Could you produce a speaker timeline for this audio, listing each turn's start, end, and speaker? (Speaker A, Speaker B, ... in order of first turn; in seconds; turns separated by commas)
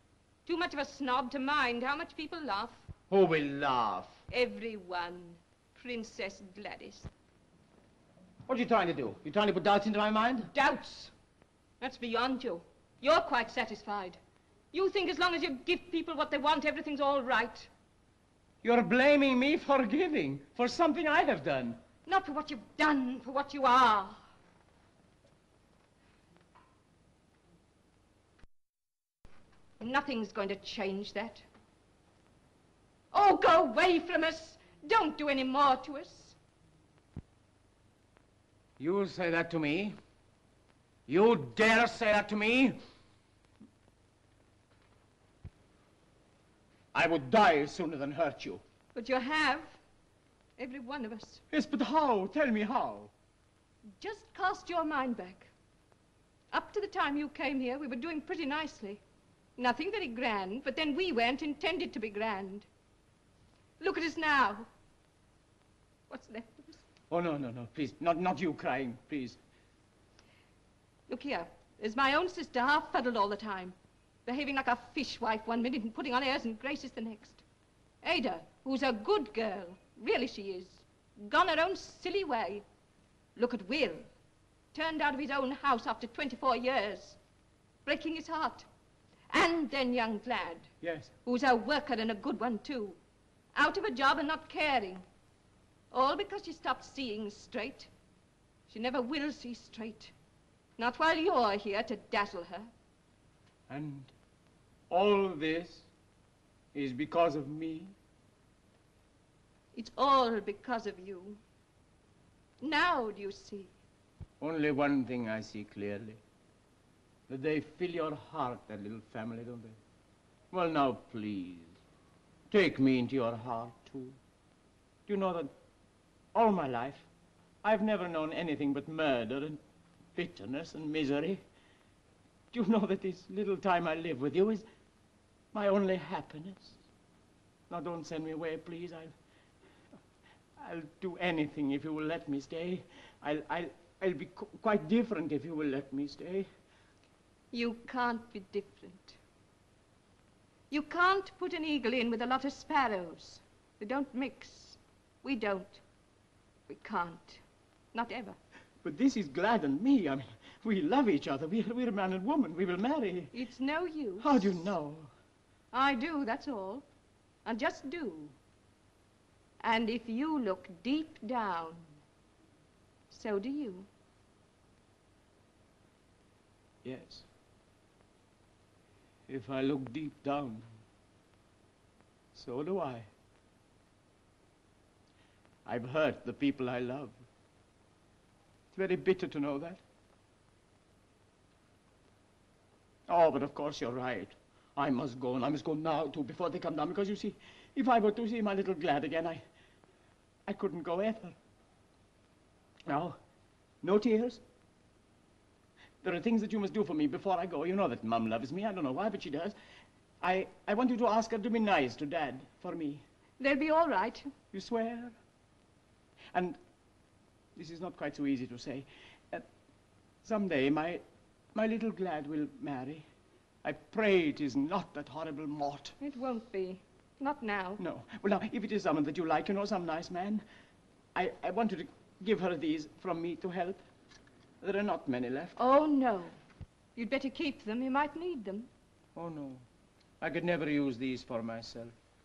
Speaker A: 0.5-2.9, Speaker B: 3.1-4.2, Speaker A: 4.3-7.1, Speaker B: 8.5-10.5, Speaker A: 10.5-11.1, Speaker A: 11.8-14.2, Speaker A: 14.7-17.7, Speaker B: 18.6-21.8, Speaker A: 22.1-24.2, Speaker A: 29.8-31.4, Speaker A: 33.1-36.4, Speaker B: 38.8-40.0, Speaker B: 41.1-42.8, Speaker B: 46.9-48.6, Speaker A: 48.9-49.8, Speaker A: 50.6-51.4, Speaker B: 51.5-53.1, Speaker A: 54.0-55.5, Speaker A: 56.5-59.0, Speaker A: 59.6-62.7, Speaker A: 63.8-64.7, Speaker A: 66.1-66.8, Speaker B: 67.1-69.4, Speaker A: 71.1-77.4, Speaker A: 78.0-82.6, Speaker A: 83.3-84.1, Speaker A: 84.7-87.2, Speaker A: 87.8-88.7, Speaker A: 89.3-90.7, Speaker B: 90.8-91.1, Speaker A: 91.2-93.0, Speaker A: 93.5-95.0, Speaker A: 95.9-97.9, Speaker A: 98.7-100.1, Speaker A: 100.8-102.7, Speaker B: 103.7-104.1, Speaker B: 104.9-105.8, Speaker B: 106.7-107.9, Speaker A: 109.7-111.4, Speaker A: 112.6-113.7, Speaker B: 114.4-116.2, Speaker B: 117.3-119.8, Speaker B: 120.5-121.8, Speaker B: 122.5-124.2, Speaker B: 125.1-125.5, Speaker B: 126.3-127.1, Speaker B: 127.6-129.6, Speaker B: 130.1-131.4, Speaker B: 132.5-134.7, Speaker B: 135.5-136.8, Speaker B: 137.7-139.1, Speaker B: 140.6-146.5, Speaker A: 147.5-149.2, Speaker A: 150.7-155.8, Speaker A: 156.7-157.4, Speaker A: 157.9-158.4, Speaker B: 158.8-163.3, Speaker A: 163.3-164.6, Speaker B: 164.2-165.1, Speaker A: 165.7-166.8, Speaker A: 167.4-168.3, Speaker A: 169.6-171.8, Speaker A: 173.1-173.9, Speaker B: 176.8-177.2, Speaker B: 179.3-180.6, Speaker B: 182.3-183.1, Speaker B: 185.7-187.2, Speaker B: 188.7-189.8, Speaker B: 193.1-199.4, Speaker B: 200.4-201.3, Speaker B: 202.9-203.2, Speaker B: 203.8-204.4, Speaker B: 206.0-209.6, Speaker B: 210.2-213.0, Speaker A: 213.4-214.3, Speaker B: 214.5-215.2, Speaker B: 216.3-216.6, Speaker B: 217.6-219.4, Speaker B: 220.2-223.1, Speaker B: 223.6-225.9, Speaker A: 226.0-227.8, Speaker B: 227.8-230.4, Speaker B: 231.1-233.8, Speaker B: 234.6-235.5, Speaker A: 235.6-236.4, Speaker A: 236.9-238.7, Speaker B: 239.1-239.6, Speaker B: 240.2-241.9